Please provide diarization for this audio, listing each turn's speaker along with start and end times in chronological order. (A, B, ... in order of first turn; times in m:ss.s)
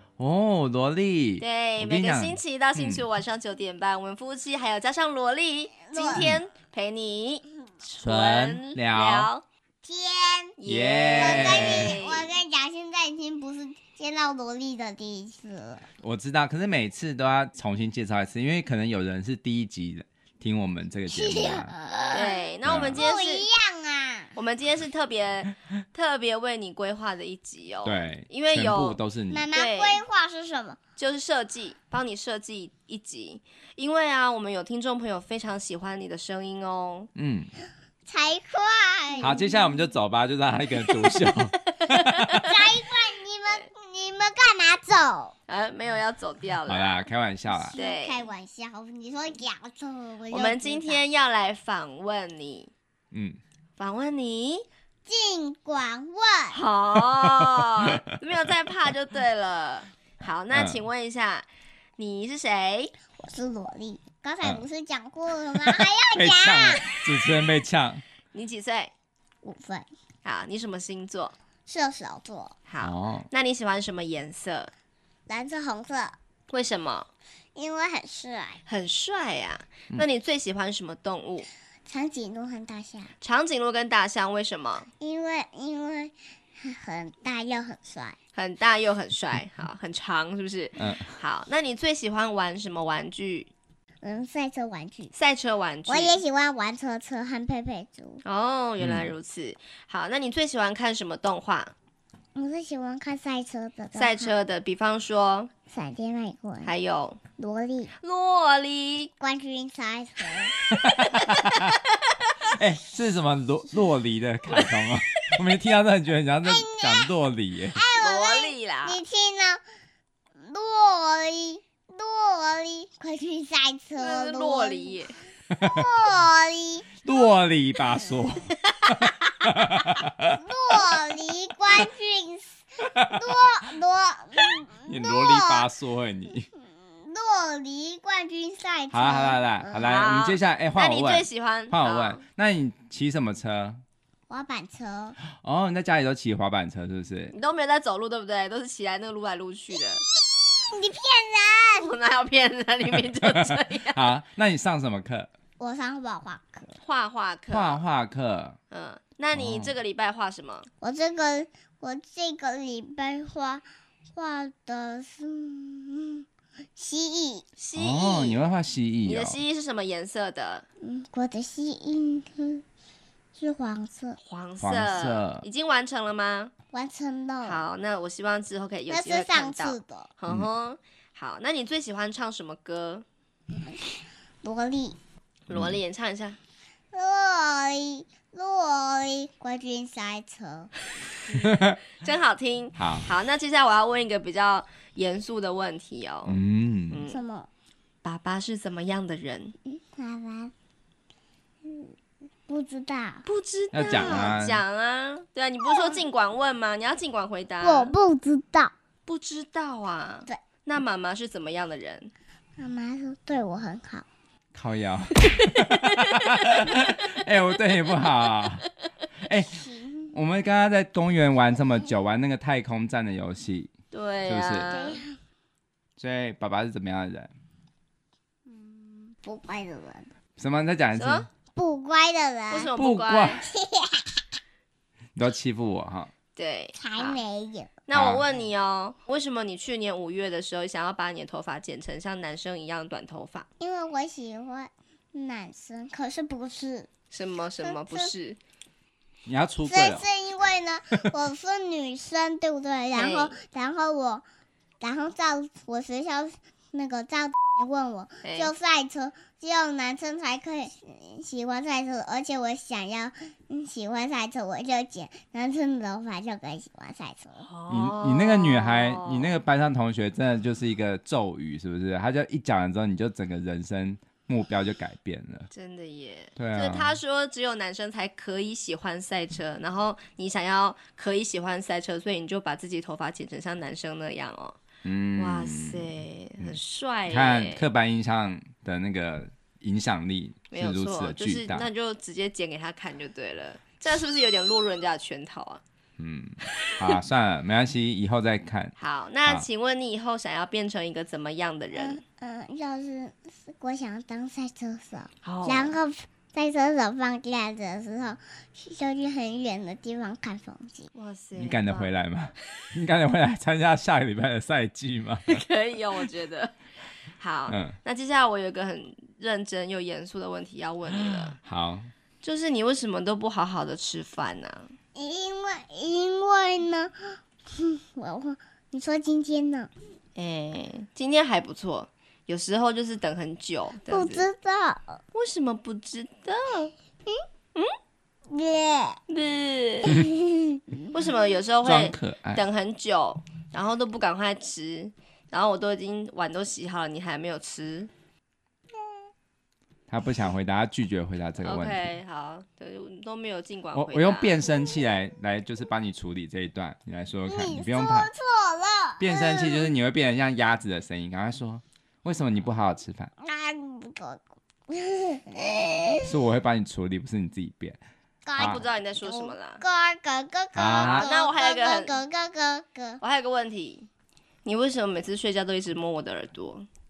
0:00.2-0:03.0 A
0:01.4-0:09.4 B
0:05.9-0:06.3 C
0:06.1-0:06.4 A
0:08.0-0:09.3 A
0:09.8-0:10.6 C
0:10.6-0:12.3 B
0:10.7-0:12.0 A
0:11.2-0:15.9 C
0:16.0-0:21.7 A
0:21.1-0:24.4 C
0:22.1-0:23.5 B
0:22.6-0:23.0 A
0:24.4-0:29.0 B
0:27.8-0:29.5 A
0:29.3-0:30.8 C
0:29.5-0:30.0 B
0:31.0-0:37.1 B
0:37.2-0:37.5 A
0:38.1-0:39.5 C
0:39.2-0:42.5 A
0:41.7-0:42.6 B
0:42.4-0:45.4 C
0:45.5-0:47.0 B
0:46.7-0:47.8 A
0:47.5-0:51.0 C
0:47.7-0:48.3 B
0:50.3-0:52.7 B
0:53.1-0:53.4 A
0:53.8-0:54.7 B
0:55.1-0:56.6 C
0:56.5-1:01.5 B
0:57.6-0:58.0 A
1:00.5-1:00.8 A
1:02.0-1:02.9 B
1:03.2-1:07.0 C
1:05.7-1:08.0 A
1:08.3-1:08.9 B
1:09.4-1:09.9 C
1:10.2-1:11.3 B
1:11.7-1:12.6 C
1:12.7-1:14.7 B
1:12.8-1:13.3 A
1:15.3-1:16.2 C
1:16.5-1:17.1 B
1:17.6-1:18.6 C
1:18.7-1:21.5 B
1:21.9-1:23.1 C
1:23.2-1:24.9 B
1:24.9-1:28.2 C
1:28.4-1:33.5 B
1:30.8-1:31.2 A
1:34.0-1:35.1 C
1:35.1-1:36.2 B
1:35.9-1:38.2 C
1:38.2-1:41.7 B
1:38.8-1:39.1 A
1:42.4-1:44.3 C
1:44.0-1:45.5 B
1:45.7-1:46.7 C
1:46.6-1:47.2 B
1:47.4-1:47.9 C
1:48.0-1:49.1 B
1:49.2-1:50.6 C
1:50.7-1:51.8 A
1:50.7-1:52.4 B
1:52.5-1:57.8 A
1:54.4-1:55.4 B
1:56.4-1:57.1 C
1:57.8-1:59.6 C
1:58.0-1:59.0 B
2:00.4-2:05.1 C
2:04.0-2:05.2 B
2:05.6-2:05.9 A
2:05.6-2:07.0 C
2:07.0-2:10.4 A
2:08.7-2:09.3 B
2:10.3-2:15.7 C
2:12.9-2:13.4 A
2:14.9-2:16.5 A
2:16.6-2:19.5 C
2:18.9-2:23.8 A
2:19.8-2:22.2 B
2:24.3-2:25.2 C
2:25.3-2:27.3 A
2:27.3-2:30.0 B
2:30.1-2:31.9 C
2:31.8-2:34.1 B
2:33.2-2:35.3 A
2:35.6-2:36.8 C
2:36.8-2:37.8 B
2:37.5-2:38.6 A
2:38.7-2:40.7 B
2:39.3-2:39.7 A
2:40.8-2:46.2 C
2:46.8-2:47.4 C
2:47.6-2:48.4 B
2:47.8-2:49.4 A
2:49.1-2:50.6 B
2:50.8-2:52.6 C
2:53.4-2:54.2 C
2:54.2-2:56.5 B
2:54.6-2:55.4 A
2:56.7-2:57.6 C
2:57.4-3:03.0 B
2:58.9-3:00.1 C
3:03.5-3:03.9 C
3:04.4-3:05.0 C
3:05.5-3:06.4 B
3:05.5-3:05.8 A
3:06.9-3:10.7 C
3:11.3-3:17.2 B
3:11.4-3:11.8 A
3:12.8-3:13.1 A
3:16.3-3:17.0 A
3:17.1-3:17.5 C
3:18.0-3:19.6 B
3:19.7-3:20.5 C
3:21.6-3:21.9 C
3:22.5-3:23.3 C
3:23.2-3:28.0 B
3:23.7-3:24.6 A
3:23.9-3:24.4 C
3:25.7-3:26.0 C
3:27.6-3:28.7 C
3:29.1-3:32.1 B
3:32.6-3:34.1 C
3:34.5-3:38.7 A
3:35.3-3:36.9 B
3:39.2-3:43.7 A
3:39.5-3:40.2 C
3:43.9-3:45.0 B
3:44.3-3:44.7 A
3:44.6-3:45.2 C
3:46.0-3:47.3 A
3:48.5-3:50.1 C
3:50.4-3:51.3 A
3:51.0-3:51.3 B
3:51.5-3:52.7 C
3:52.5-3:53.5 B
3:52.8-3:53.4 A
3:53.5-3:54.2 C
3:55.2-3:56.1 A
3:56.4-3:57.2 B
3:56.8-3:57.7 C
3:57.9-4:03.5 B
3:57.9-3:58.2 A
4:03.6-4:06.9 C
4:07.1-4:08.4 B
4:07.6-4:08.1 C
4:09.3-4:10.1 A
4:09.7-4:14.2 C
4:12.9-4:13.4 B
4:14.8-4:27.5 C
4:18.2-4:18.5 B
4:27.4-4:29.4 B
4:27.7-4:35.5 A
4:35.5-4:44.6 B
4:36.4-4:37.0 A
4:44.8-4:45.9 A
4:45.2-4:47.7 B
4:46.4-4:51.7 A
4:50.5-4:55.6 B
4:56.0-4:58.7 A
4:56.5-4:56.9 B
4:58.8-5:02.0 B
5:01.8-5:10.9 C
5:05.2-5:05.8 B
5:10.9-5:11.9 B
5:11.4-5:15.4 A
5:15.3-5:16.5 B
5:17.2-5:21.4 B
5:17.5-5:17.8 A
5:20.9-5:21.9 A
5:22.2-5:24.7 B
5:25.0-5:29.7 C
5:30.2-5:34.3 B
5:33.9-5:35.0 C
5:35.1-5:36.7 B
5:38.3-5:39.0 C
5:39.1-5:40.0 B
5:39.8-5:40.9 C
5:40.9-5:47.9 B
5:41.6-5:42.4 A
5:48.8-5:49.0 C
5:49.9-5:51.9 A
5:51.4-5:54.4 B
5:53.7-5:58.1 A
5:57.3-5:59.7 C
5:59.0-6:03.1 A
6:03.2-6:06.1 C
6:06.0-6:07.8 A
6:08.3-6:13.0 C
6:08.4-6:08.6 A
6:08.4-6:09.6 B
6:10.6-6:11.1 A
6:10.8-6:12.0 B
6:13.0-6:13.9 B
6:14.4-6:16.7 B